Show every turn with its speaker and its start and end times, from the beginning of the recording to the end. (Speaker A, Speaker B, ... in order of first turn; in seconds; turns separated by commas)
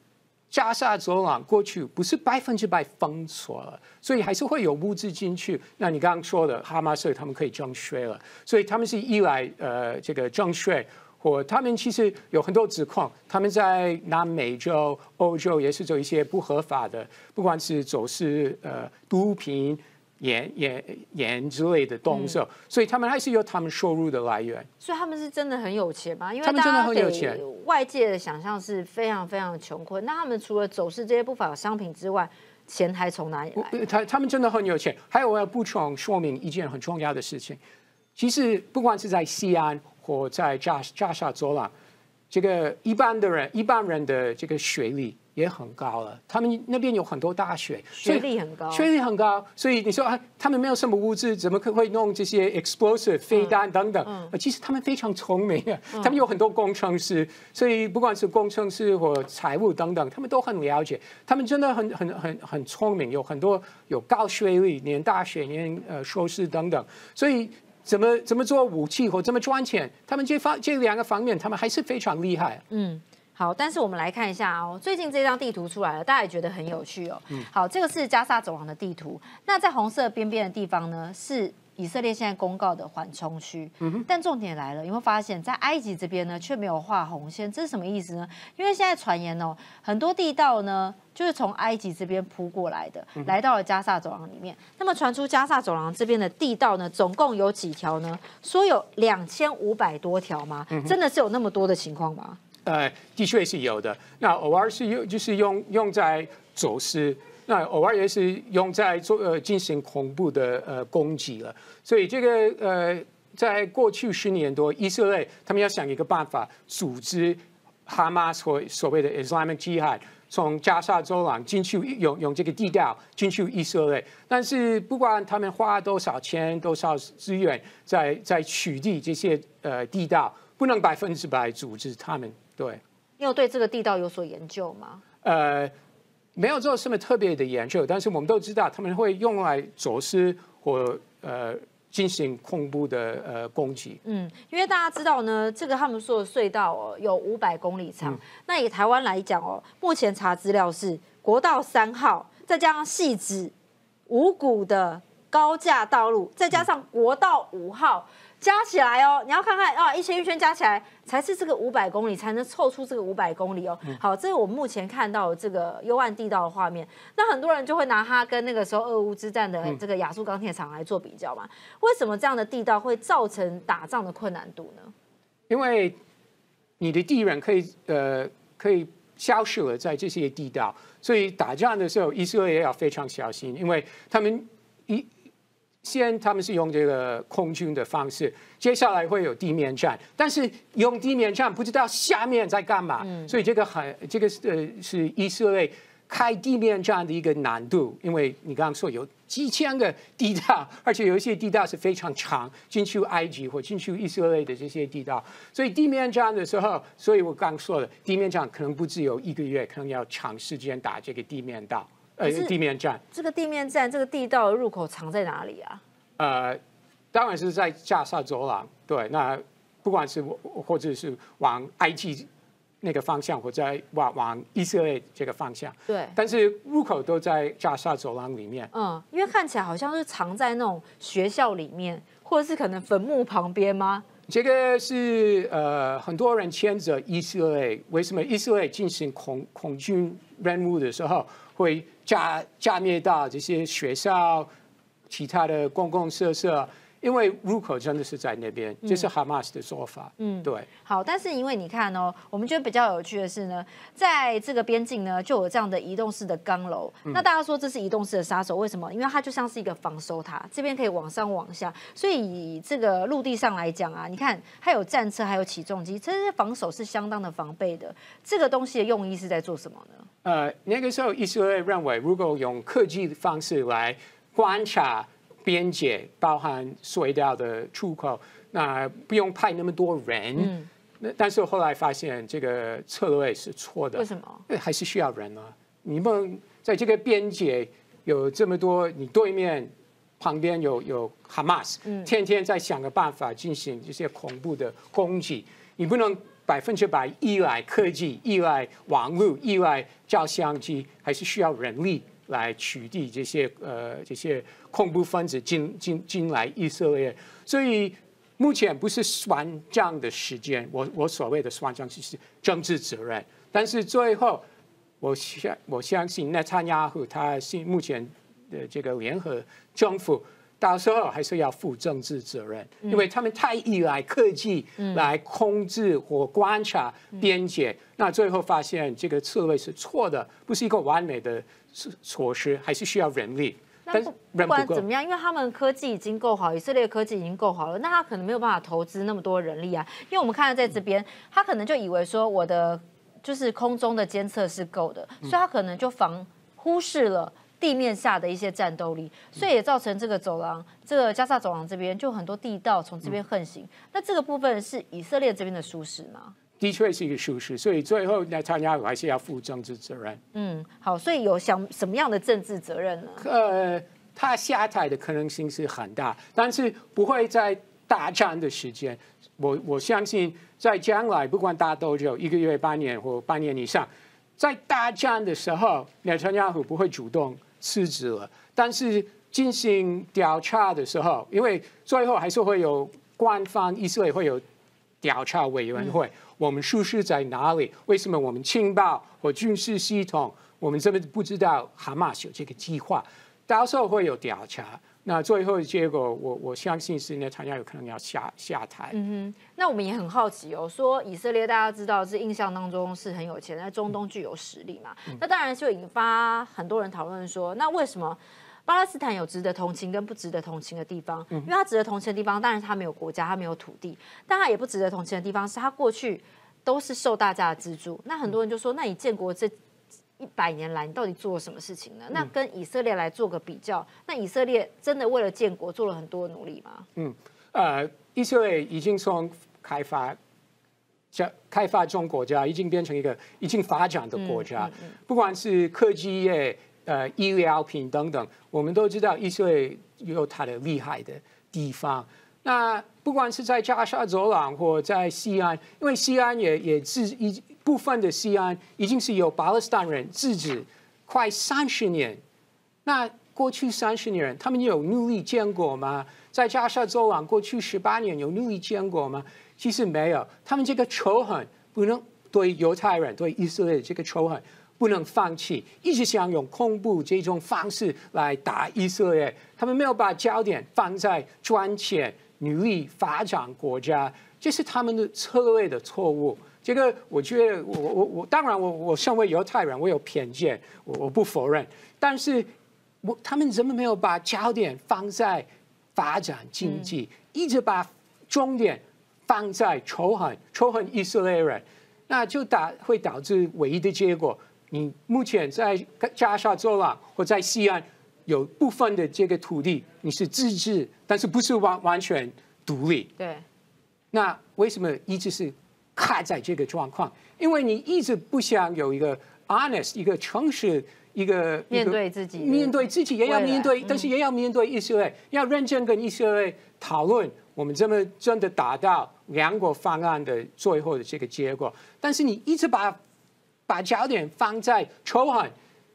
Speaker A: 0.5-24.7, Speaker B: 22.1-22.4, Speaker B: 24.8-33.8, Speaker A: 26.4-27.4, Speaker A: 33.6-37.6, Speaker A: 38.2-41.7, Speaker A: 42.3-72.6, Speaker B: 48.0-48.9, Speaker B: 54.0-54.3, Speaker B: 72.7-102.4, Speaker A: 83.8-84.1, Speaker A: 102.7-132.8, Speaker B: 133.2-135.0, Speaker A: 135.2-135.7, Speaker A: 136.4-144.0, Speaker B: 144.1-153.5, Speaker B: 154.1-174.9, Speaker A: 175.5-176.0, Speaker A: 176.8-185.1, Speaker A: 185.8-213.0, Speaker B: 193.0-193.3, Speaker B: 212.2-212.5, Speaker B: 213.1-215.8, Speaker A: 216.2-216.6, Speaker A: 217.1-222.3, Speaker A: 222.8-228.7, Speaker B: 225.9-226.2, Speaker B: 228.7-234.1, Speaker A: 234.3-244.5, Speaker A: 245.1-250.7, Speaker B: 250.2-270.1, Speaker A: 270.2-314.4, Speaker B: 280.4-280.7, Speaker B: 284.0-284.4, Speaker B: 291.9-292.1, Speaker A: 315.0-334.8, Speaker B: 324.8-325.1, Speaker B: 333.9-356.3, Speaker A: 356.6-360.2, Speaker B: 360.3-363.3, Speaker A: 363.2-384.4, Speaker A: 385.0-398.9, Speaker B: 398.9-419.5, Speaker B: 420.2-426.9, Speaker A: 427.0-430.2, Speaker A: 431.1-452.2, Speaker B: 434.2-434.9, Speaker A: 452.9-482.5, Speaker A: 483.0-503.1, Speaker B: 486.6-486.9, Speaker B: 503.2-503.4, Speaker A: 504.1-523.0, Speaker B: 511.7-514.1, Speaker A: 523.7-525.5